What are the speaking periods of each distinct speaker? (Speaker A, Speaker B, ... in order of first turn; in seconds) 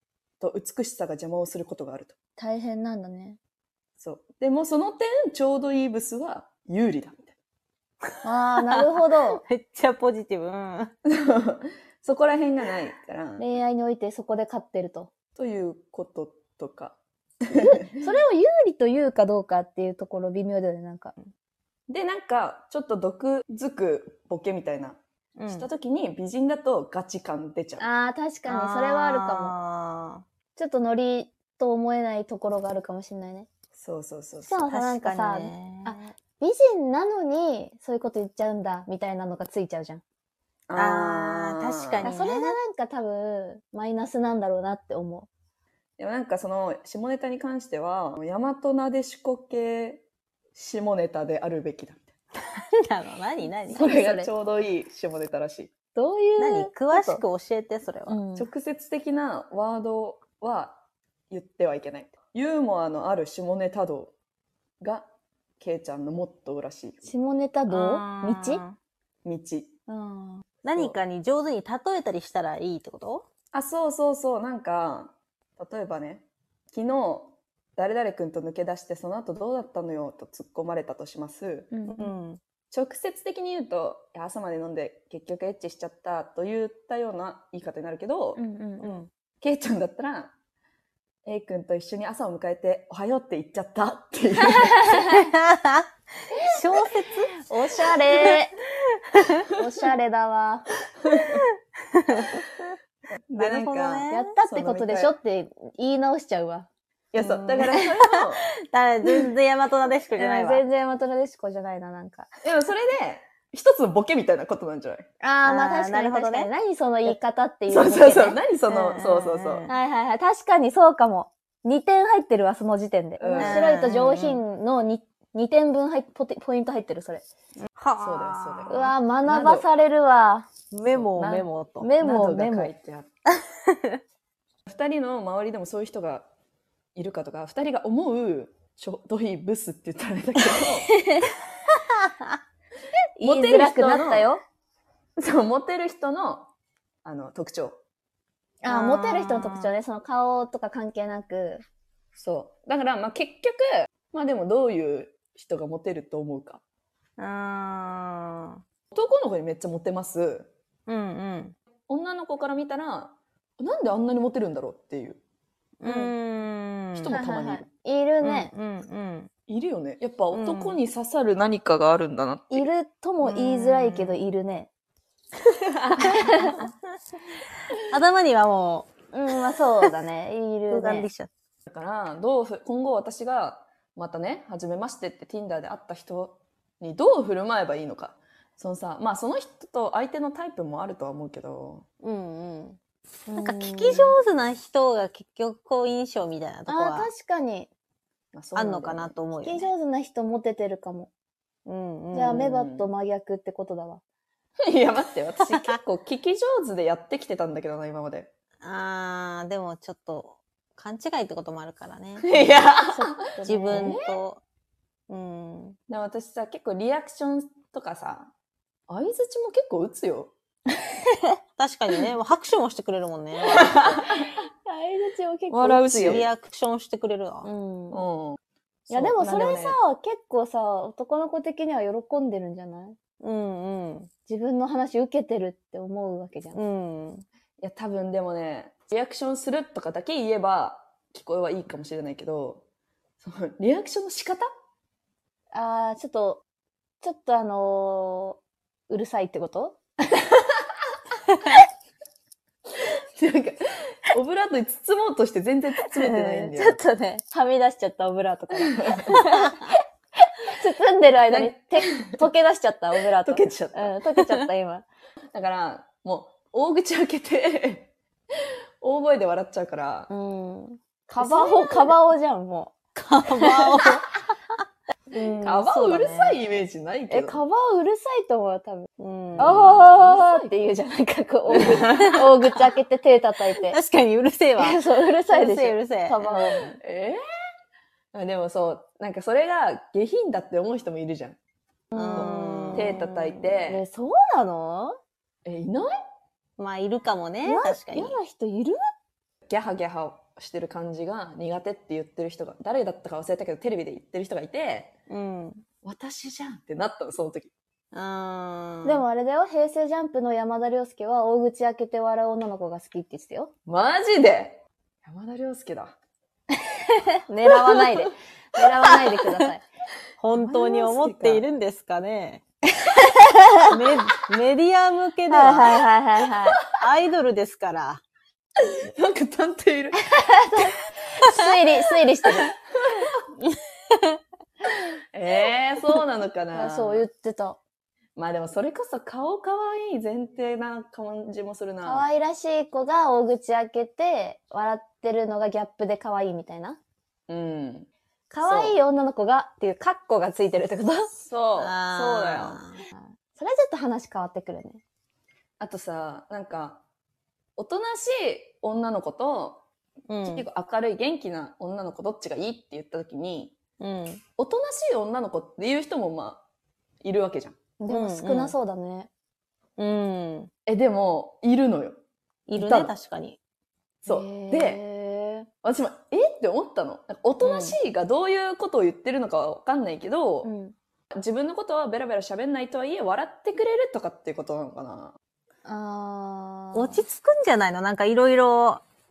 Speaker A: 0.4-2.1, 4.0-7.3, 11.1-13.4, 15.3-18.0, 21.9-27.9, 33.7-34.6, 40.7-42.1, 46.0-52.0, 53.7-55.7, 58.4-64.1, 64.8-65.1, 65.6-67.0, 69.2-69.7, 70.7-71.0, 73.5-81.7, 82.7-88.4, 89.4-90.3, 91.2-94.8, 103.3-105.1, 107.1-108.4, 112.4-115.0, 117.7-119.6, 123.2-123.7, 128.0-129.7, 130.9-133.1, 134.7-136.3, 136.9-140.9, 143.2-144.3, 145.2-146.5, 147.0-147.8, 152.1-156.6, 158.9-160.5, 161.9-165.2, 166.9-167.7, 169.5-172.7, 181.7-191.8, 198.3-199.2, 202.3-202.9, 204.6-208.3, 212.2-213.1, 213.7-214.1, 215.9-218.3, 218.9-220.3, 223.5-224.0, 225.5-226.3, 227.9-228.4, 228.9-229.8, 237.6-242.6, 243.2-244.5, 253.2-256.8, 258.7-259.0, 261.3-262.2, 263.2-264.0, 265.3-267.9, 268.8-270.1, 275.4-277.4, 279.4-280.5, 281.5-282.2, 286.8-287.2, 288.1-291.4, 292.1-293.8, 295.4-295.9, 299.5-304.9, 305.8-307.5, 313.6-315.9, 320.3-321.4, 328.8-329.9, 335.1-337.0, 338.1-342.1, 347.3-347.9, 348.4-348.8, 351.2-352.6, 355.6-356.8, 357.6-359.6, 360.2-363.6, 364.4-366.4, 367.0-367.6, 370.6-372.0, 372.6-372.9, 374.0-374.8, 375.6-380.5, 381.1-385.1
Speaker B: 2.4-3.4, 8.2-9.4, 13.4-15.1, 17.5-21.1, 27.8-29.5, 30.6-33.5, 34.5-40.0, 42.0-45.3, 53.7-54.3, 55.9-57.2, 58.1-58.5, 67.0-68.6, 69.9-70.4, 81.7-82.1, 88.3-88.9, 97.4-98.6, 99.5-100.7, 104.1-106.7, 110.2-112.3, 115.2-118.4, 119.7-127.2, 128.7-130.5, 131.8-132.7, 143.2-144.4, 148.6-151.6, 165.8-166.1, 167.1-168.5, 172.5-174.7, 176.0-176.6, 179.1-181.1, 193.3-194.2, 196.7-197.7, 199.4-201.1, 202.1-204.0, 212.9-214.0, 224.1-225.8, 227.4-228.0, 228.9-233.0, 234.3-236.6, 245.5-246.4, 247.0-249.8, 255.9-259.7, 260.4-264.9, 270.1-272.7, 277.1-283.8, 284.6-286.6, 291.9-292.9, 293.7-295.0, 297.4-298.8, 308.8-313.5, 317.3-319.6, 322.9-323.4, 325.3-326.6, 330.1-332.5, 336.5-337.6, 341.8-346.8, 348.3-351.1, 352.9-354.8, 367.8-369.1, 374.1-375.5, 380.4-380.7, 385.6-387.0
Speaker C: 9.3-10.9, 25.4-25.7, 28.5-30.2, 34.5-36.1, 40.7-42.5, 52.6-53.9, 56.4-58.2, 67.7-68.8, 70.6-73.2, 81.9-82.4, 88.8-89.1, 95.0-97.3, 99.2-99.4, 102.1-102.4, 103.3-104.3, 107.2-110.6, 115.4-116.5, 118.7-119.7, 123.4-124.4, 127.7-128.9, 130.7-131.9, 148.7-149.7, 157.2-158.6, 160.9-161.5, 165.8-167.2, 168.2-169.3, 170.3-170.8, 173.2-174.2, 176.4-176.7, 177.9-178.9, 180.7-181.3, 192.0-192.8, 193.3-197.1, 198.5-199.7, 201.7-202.4, 205.4-205.8, 208.6-212.6, 213.4-214.4, 215.1-215.8, 221.6-223.8, 225.9-227.5, 233.2-234.1, 236.5-237.2, 271.2-271.9, 272.9-274.1, 275.1-276.4, 279.0-280.0, 281.6-282.4, 283.7-286.8, 291.9-293.6, 296.6-298.1, 305.1-305.6, 307.9-309.0, 320.2-322.4, 323.7-325.8, 326.6-328.0, 351.6-352.8, 360.1-360.5, 363.8-364.2, 367.9-368.5, 369.8-370.5, 372.5-373.4, 377.4-377.8, 386.7-388.8